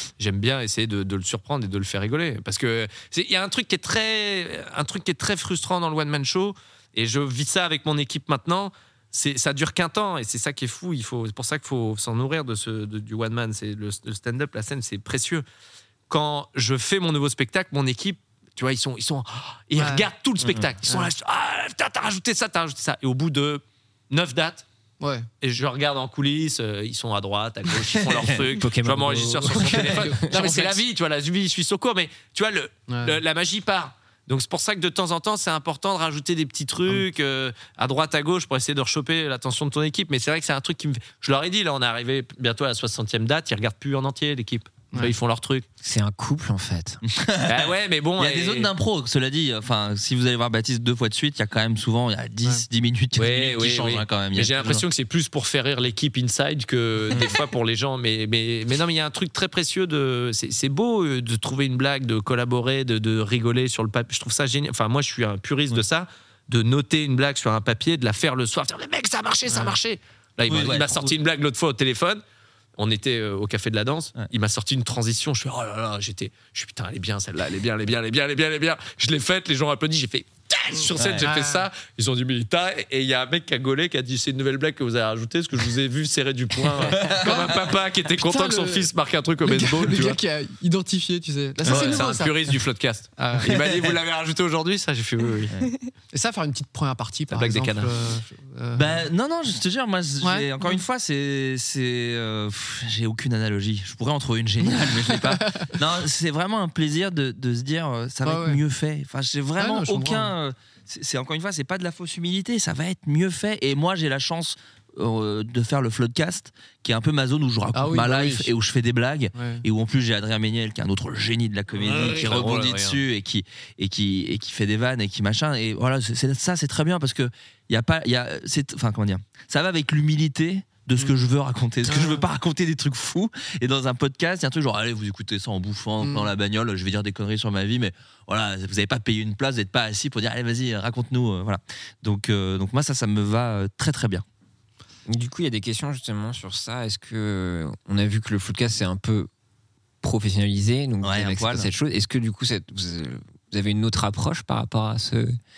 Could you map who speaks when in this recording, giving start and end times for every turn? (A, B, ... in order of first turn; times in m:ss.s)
0:00.2-0:15.4 A
0:16.1-0:24.7 A
0:19.8-0:20.1 B
0:20.8-0:21.1 B
0:25.0-0:25.3 B
0:25.4-0:45.6 A
0:28.1-0:28.4 C
0:28.4-0:30.5 D
0:29.7-0:30.7 B
0:32.9-0:33.2 B
0:45.8-0:47.0 D
0:47.1-0:54.8 C
0:47.4-0:48.7 A
0:53.2-1:12.2 A
1:10.5-1:11.1 C
1:12.8-1:30.2 A
1:20.8-1:21.7 B
1:21.0-1:21.3 C
1:26.9-1:27.5 C
1:28.2-1:28.9 B
1:29.4-1:32.4 B
1:31.6-1:32.1 C
1:31.7-1:35.5 A
1:33.2-1:33.6 B
1:33.5-1:33.9 C
1:36.1-1:39.1 B
1:37.3-1:37.9 A
1:38.8-2:24.2 C
1:40.2-1:40.8 B
1:44.7-1:45.7 B
1:48.2-1:48.6 B
1:49.6-1:50.3 B
1:57.7-1:58.5 B
1:59.4-1:59.6 B
2:01.7-2:03.0 A
2:11.9-2:12.3 B
2:16.0-2:16.3 B
2:25.1-2:29.3 D
2:30.0-2:35.4 D
2:31.0-2:31.7 C